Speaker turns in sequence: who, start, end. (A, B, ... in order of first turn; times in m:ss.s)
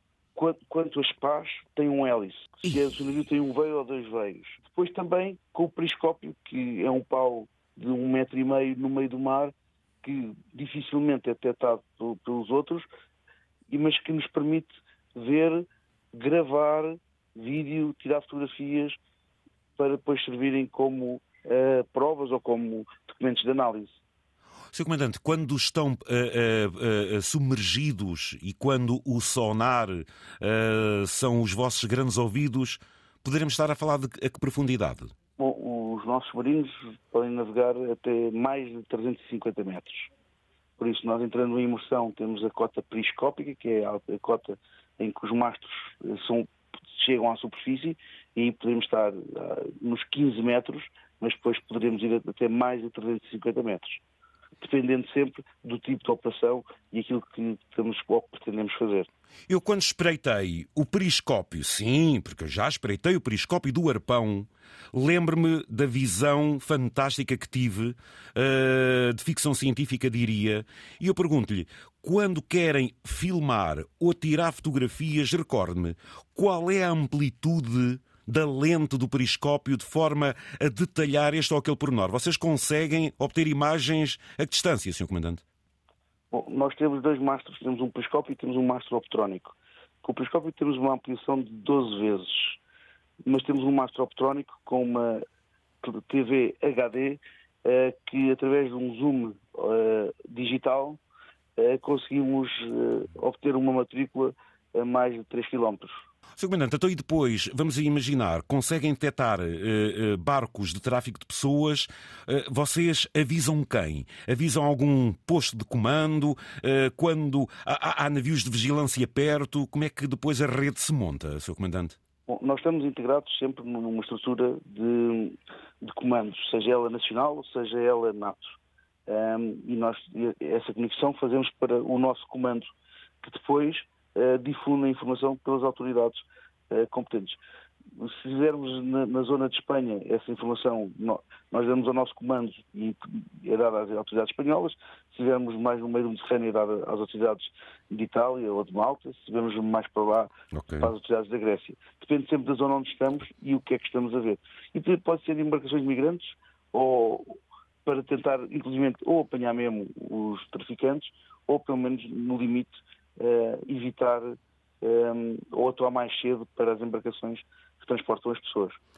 0:00.4-0:12.9 A
0:13.7-0:19.0 A
0:19.8-0:24.0 A
0:24.7-0:35.1 B
0:35.4-0:40.1 A
0:40.8-0:54.0 A
0:54.6-0:59.1 A
0:59.5-1:25.4 B
1:26.3-1:32.6 A
1:33.2-1:35.2 A
1:35.8-1:41.0 A
1:41.6-1:46.0 A
1:46.4-2:02.0 B
2:02.3-2:17.4 A
2:18.0-2:48.8 A
2:30.5-2:30.9 B